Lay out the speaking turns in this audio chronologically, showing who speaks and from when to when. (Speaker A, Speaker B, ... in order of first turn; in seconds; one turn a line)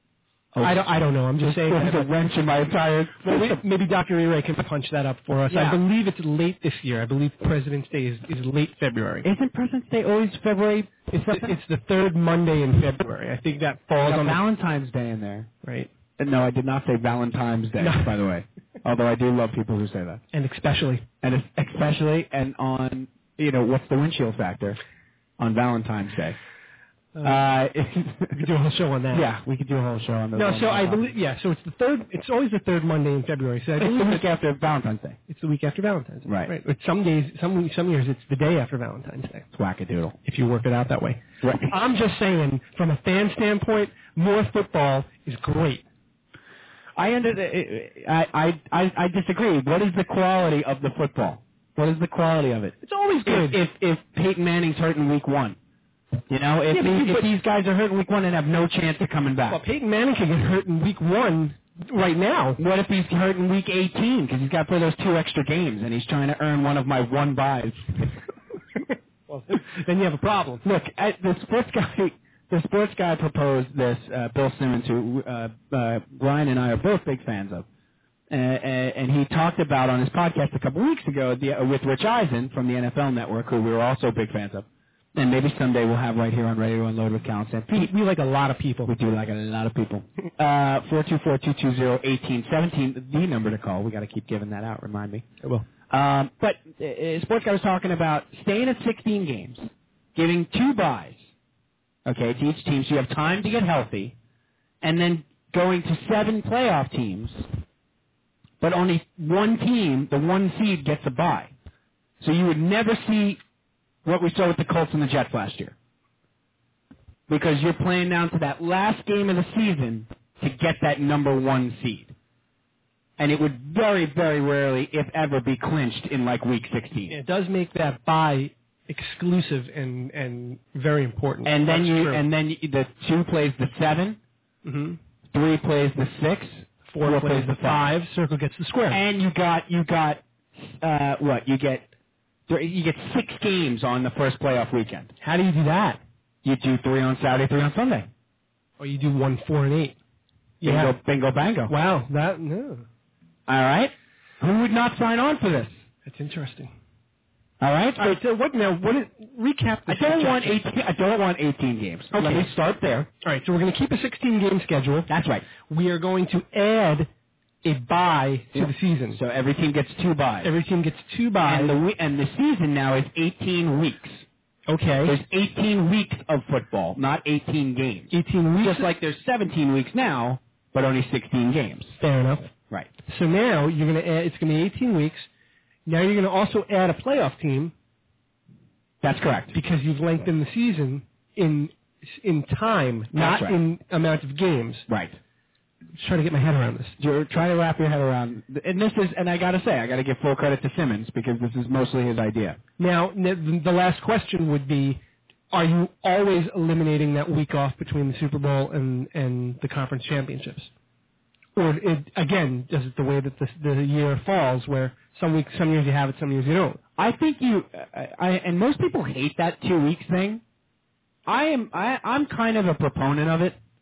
Speaker A: 0.5-0.9
Speaker B: 0.6-2.1
Speaker A: 1.4-3.6
Speaker B: 3.2-9.3
Speaker A: 5.5-5.8
Speaker A: 9.2-11.6
Speaker B: 11.1-14.4
Speaker A: 14.0-15.5
Speaker B: 15.6-15.9
Speaker A: 16.2-20.2
Speaker B: 17.8-18.1
Speaker B: 20.3-21.1
Speaker A: 21.2-24.8
Speaker A: 25.4-26.4
Speaker B: 27.1-27.4
Speaker A: 27.2-28.5
Speaker B: 28.3-29.3
Speaker A: 29.1-31.1
Speaker B: 30.4-34.2
Speaker A: 33.8-35.2
Speaker B: 35.3-39.5
Speaker A: 36.3-36.5
Speaker A: 39.5-40.1
Speaker B: 40.2-45.8
Speaker A: 41.4-41.7
Speaker A: 47.0-55.6
Speaker B: 52.8-53.6
Speaker A: 56.3-59.6
Speaker B: 56.7-57.3
Speaker B: 59.5-62.6
Speaker A: 62.6-68.1
Speaker B: 69.3-70.6
Speaker A: 70.6-77.7
Speaker A: 78.3-87.9
Speaker B: 87.7-88.9
Speaker A: 88.9-95.3
Speaker A: 95.9-101.3
Speaker A: 102.1-104.1
Speaker A: 104.8-107.5
Speaker A: 108.6-111.5
Speaker A: 112.2-113.4
Speaker A: 114.0-115.8
Speaker A: 117.3-122.1
Speaker A: 123.2-127.2
Speaker B: 127.1-132.2
Speaker A: 131.4-134.2
Speaker B: 134.6-135.0
Speaker A: 135.3-137.8
Speaker B: 136.9-139.0
Speaker A: 138.9-141.9
Speaker A: 142.5-145.1
Speaker B: 145.2-146.0
Speaker A: 146.4-148.1
Speaker B: 148.8-150.0
Speaker B: 150.6-151.0
Speaker A: 150.6-151.7
Speaker B: 151.7-152.9
Speaker A: 153.5-155.8
Speaker B: 156.1-156.7
Speaker A: 157.6-158.2
Speaker B: 158.0-160.6
Speaker A: 159.9-163.1
Speaker B: 162.2-162.5
Speaker B: 163.2-165.1
Speaker A: 165.1-165.5
Speaker B: 165.7-167.1
Speaker B: 167.6-169.2
Speaker A: 168.5-170.5
Speaker B: 170.4-171.8
Speaker A: 171.4-174.2
Speaker B: 174.7-175.2
Speaker A: 175.1-182.0
Speaker B: 178.1-178.9
Speaker B: 182.0-182.5
Speaker B: 183.1-185.3
Speaker B: 185.9-187.7
Speaker A: 189.0-189.5
Speaker B: 189.5-194.9
Speaker A: 193.1-193.6
Speaker A: 194.9-195.2
Speaker B: 196.0-196.9
Speaker A: 197.0-202.6
Speaker B: 202.8-205.0
Speaker B: 205.5-210.7
Speaker B: 211.6-216.8
Speaker A: 217.0-220.4
Speaker A: 221.3-223.6